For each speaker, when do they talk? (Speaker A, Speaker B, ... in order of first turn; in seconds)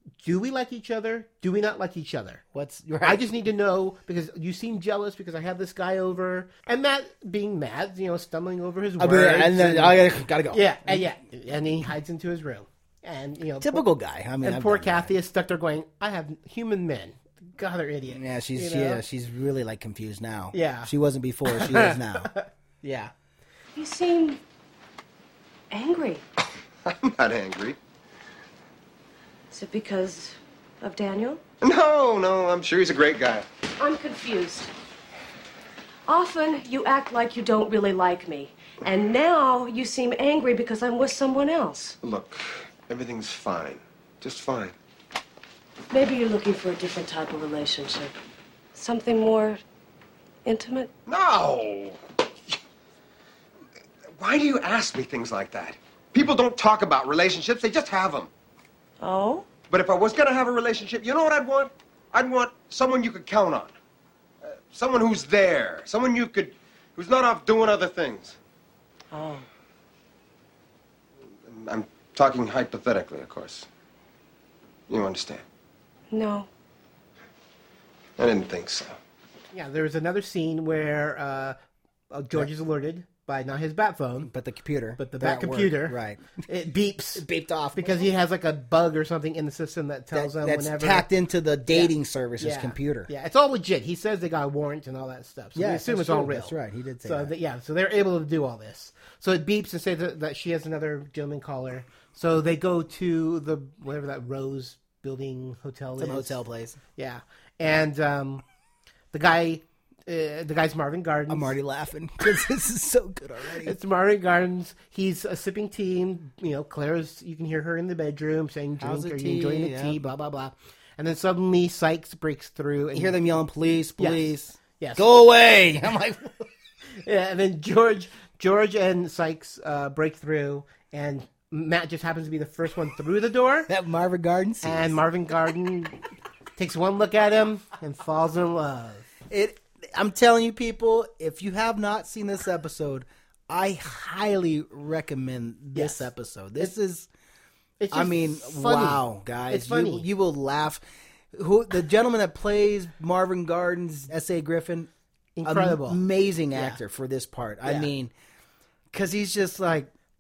Speaker A: 0.2-2.4, 3.0-13.9, 14.4-19.0, 20.5-20.9, 21.5-23.1, 79.5-81.6, 82.1-84.3, 85.0-87.2, 87.8-91.1, 91.7-106.4, 107.0-108.4, 109.1-111.6, 113.6-123.2, 124.0-125.1, 126.9-133.7, 134.6-136.0, 136.6-139.1, 145.8-146.7, 147.8-150.1, 155.4-156.0, 156.5-156.8, 157.6-157.9
Speaker B: 2.5-3.3, 9.0-11.1, 13.6-15.1, 18.1-22.3, 84.2-86.4, 87.2-88.1, 90.1-93.1, 95.5-97.3, 106.0-106.8, 111.3-113.8, 118.8-120.0, 122.9-126.5, 133.7-135.0, 139.3-147.1, 147.9-154.9, 155.4-158.1, 158.9-159.9
Speaker C: 23.8-24.4, 25.7-26.2, 29.5-31.4, 33.8-34.7, 36.1-42.0, 45.9-48.1, 48.7-49.6, 50.5-50.9, 59.0-59.5, 69.1-69.5, 76.1-76.5
Speaker D: 26.9-27.8, 31.6-33.5, 42.0-44.8, 51.1-52.0, 54.1-58.3, 59.7-63.7, 64.4-68.4, 71.5-73.7, 74.9-75.4, 78.2-79.0